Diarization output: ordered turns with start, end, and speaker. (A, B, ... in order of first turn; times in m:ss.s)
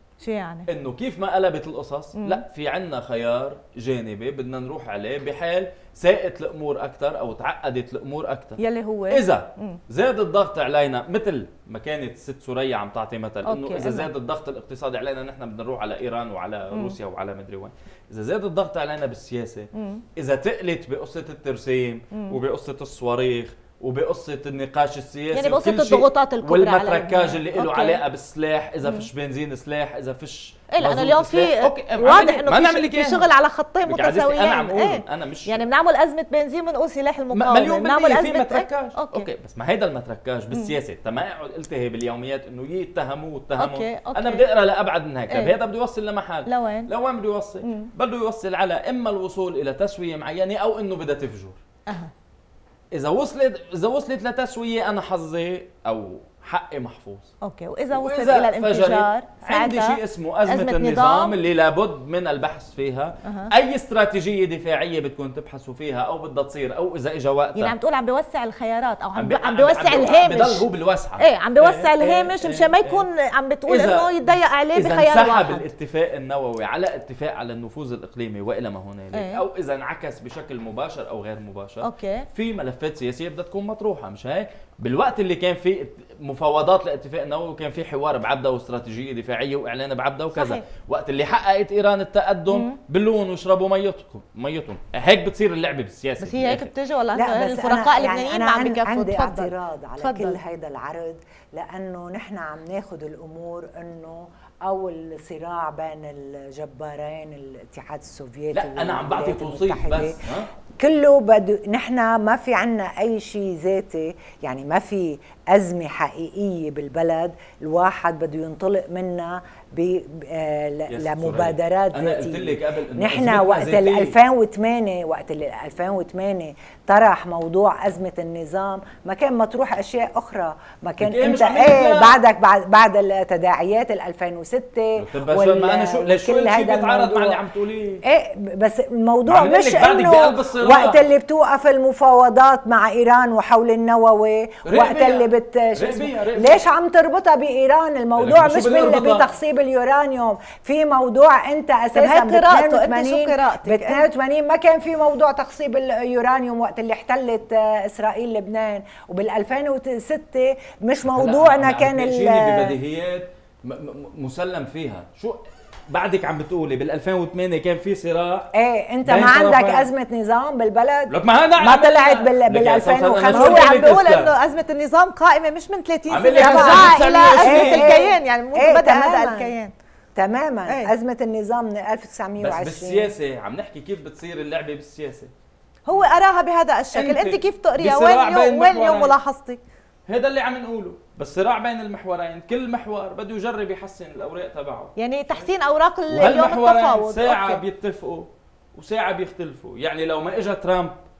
0:00.2-0:00.7 A
0:00.7-0:08.6 B
0:08.6-0:09.8 A
0:09.1-0:33.3 B
0:13.4-0:14.1 A
0:19.7-0:20.0 A
0:25.3-0:28.0 A
0:30.7-0:39.3 A
0:33.8-0:35.6 B
0:37.3-0:51.6 B
0:43.6-0:44.5 A
0:46.5-0:46.9 A
0:47.6-0:47.9 A
0:52.9-0:57.3 B
0:57.4-1:01.3 A
0:57.9-1:07.7 B
1:03.2-1:03.5 A
1:07.6-1:10.6 A
1:09.2-1:13.0 B
1:11.2-1:15.6 A
1:13.7-1:36.7 B
1:19.1-1:19.4 A
1:21.8-1:22.3 A
1:30.4-1:30.6 A
1:32.5-1:32.8 A
1:36.2-1:40.4 A
1:37.1-1:50.2 C
1:48.5-1:50.5 B
1:50.8-2:17.4 C
2:00.9-2:04.1 B
2:11.0-2:12.2 B
2:15.0-2:18.0 B
2:18.0-2:42.8 C
2:19.3-2:21.0 B
2:24.6-2:26.6 B
2:28.2-2:29.3 B
2:31.9-2:34.0 A
2:41.1-2:48.5 B
2:48.5-2:54.0 C
2:49.0-2:49.9 B
2:51.1-2:54.3 B
2:53.3-2:59.7 A
2:56.1-2:58.0 B
2:56.3-2:59.5 C
3:00.2-3:03.1 C
3:02.4-3:05.3 B
3:05.9-3:09.6 A
3:06.9-3:09.1 B
3:10.1-3:14.9 B
3:15.0-3:17.6 A
3:16.1-3:20.9 B